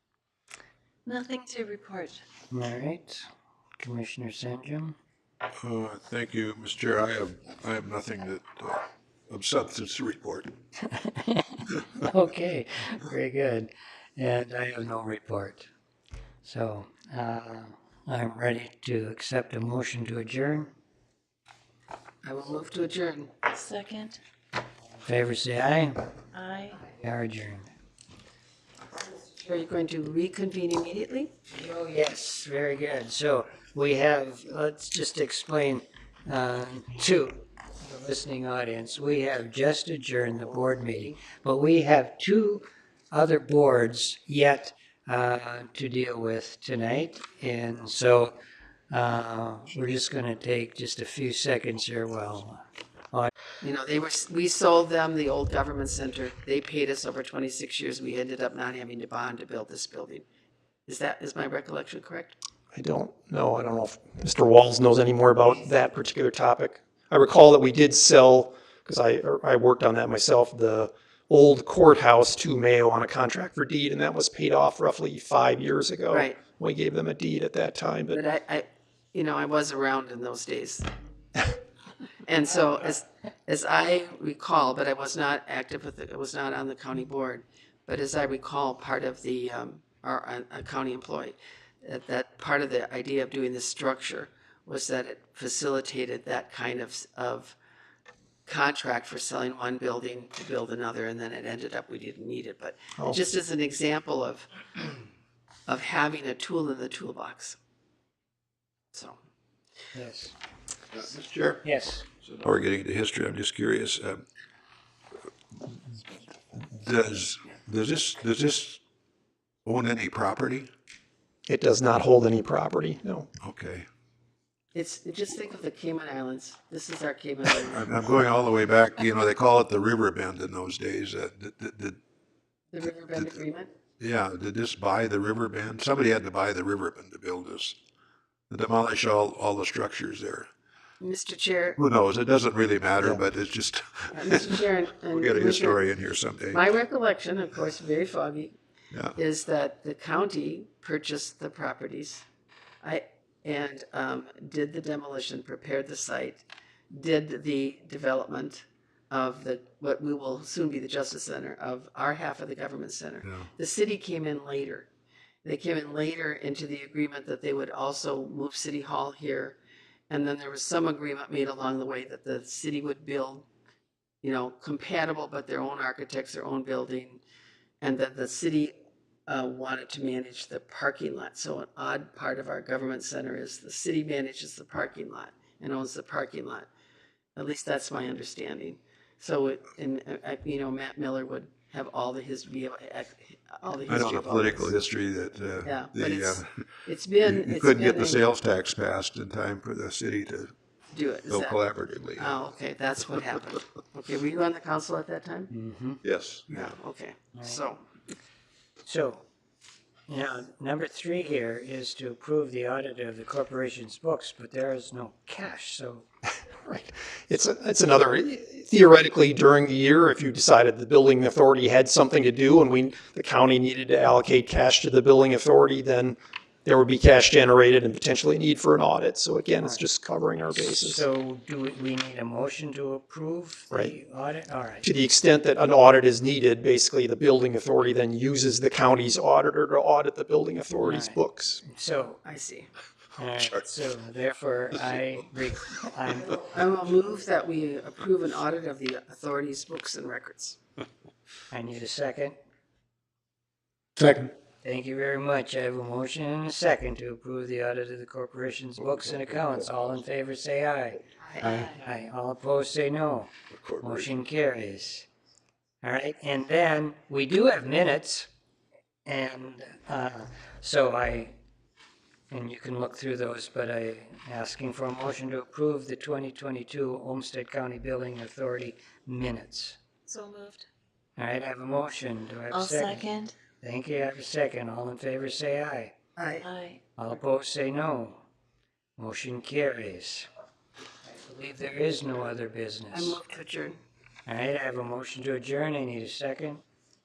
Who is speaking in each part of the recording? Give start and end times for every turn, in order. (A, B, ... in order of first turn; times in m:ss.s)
0:01.0-0:02.2 A
0:02.5-0:03.3 B
0:03.8-0:05.0 B
0:05.6-0:10.5 C
0:10.8-0:15.7 B
0:16.4-0:20.7 B
0:22.2-0:23.4 D
0:23.4-0:24.2 A
0:25.0-0:26.0 B
0:26.3-0:26.8 A
0:26.9-0:27.7 B
0:29.3-0:31.3 D
0:31.5-0:48.3 B
0:40.6-0:41.2 D
0:48.9-0:52.6 B
0:53.6-1:00.2 D
1:00.9-1:02.4 D
1:02.7-1:18.2 E
1:16.1-1:16.4 D
1:18.1-1:20.9 D
1:22.3-1:37.6 D
1:38.4-1:44.5 D
1:45.7-1:47.6 D
1:48.9-1:49.2 D
1:49.9-1:50.3 B
1:50.9-1:51.6 C
1:51.6-1:52.0 B
1:52.2-1:54.2 C
1:55.6-1:56.0 C
1:56.5-1:58.8 C
1:59.6-2:00.7 C
2:01.5-2:03.3 E
2:03.4-2:03.9 C
2:04.7-2:07.9 D
2:07.7-2:12.0 C
2:12.7-2:13.7 D
2:14.0-2:17.8 C
2:18.5-2:20.5 C
2:21.0-2:21.8 D
2:21.8-2:24.6 C
2:24.1-2:25.8 D
2:25.1-2:26.6 C
2:26.5-2:28.6 D
2:29.2-2:32.2 D
2:32.8-2:44.9 D
2:43.2-2:43.5 C
2:45.4-2:49.6 D
2:50.1-2:53.4 D
2:54.2-2:57.2 D
2:57.8-2:58.7 D
2:59.3-3:06.7 D
3:07.4-3:14.7 D
3:13.9-3:16.5 C
3:15.6-3:18.2 D
3:17.2-3:20.5 C
3:20.9-3:21.6 D
3:21.3-3:22.3 C
3:22.2-3:25.5 D
3:25.5-3:26.0 B
3:26.0-3:26.7 C
3:26.5-3:27.8 D
3:27.4-3:27.6 B
3:28.8-3:29.2 B
3:30.1-3:36.0 B
3:36.5-3:51.0 E
3:50.5-3:54.9 B
3:53.7-3:54.0 E
3:54.8-4:01.6 E
4:00.8-4:02.2 B
4:02.2-4:02.7 D
4:03.2-4:06.4 B
4:03.4-4:03.6 C
4:06.5-4:10.6 D
4:11.5-4:12.4 B
4:14.0-4:14.3 C
4:14.6-4:25.1 B
4:21.4-4:21.8 A
4:23.5-4:24.2 C
4:25.8-4:28.3 B
4:29.0-4:31.4 B
4:32.3-4:39.8 B
4:40.1-4:40.6 A
4:41.2-4:43.0 B
4:42.5-4:43.4 A
4:43.6-4:45.9 B
4:46.2-4:46.4 D
4:46.4-4:46.8 A
4:47.0-4:48.2 B
4:49.0-4:50.3 B
4:51.0-4:53.2 B
4:52.9-4:53.8 D
4:54.2-4:56.6 B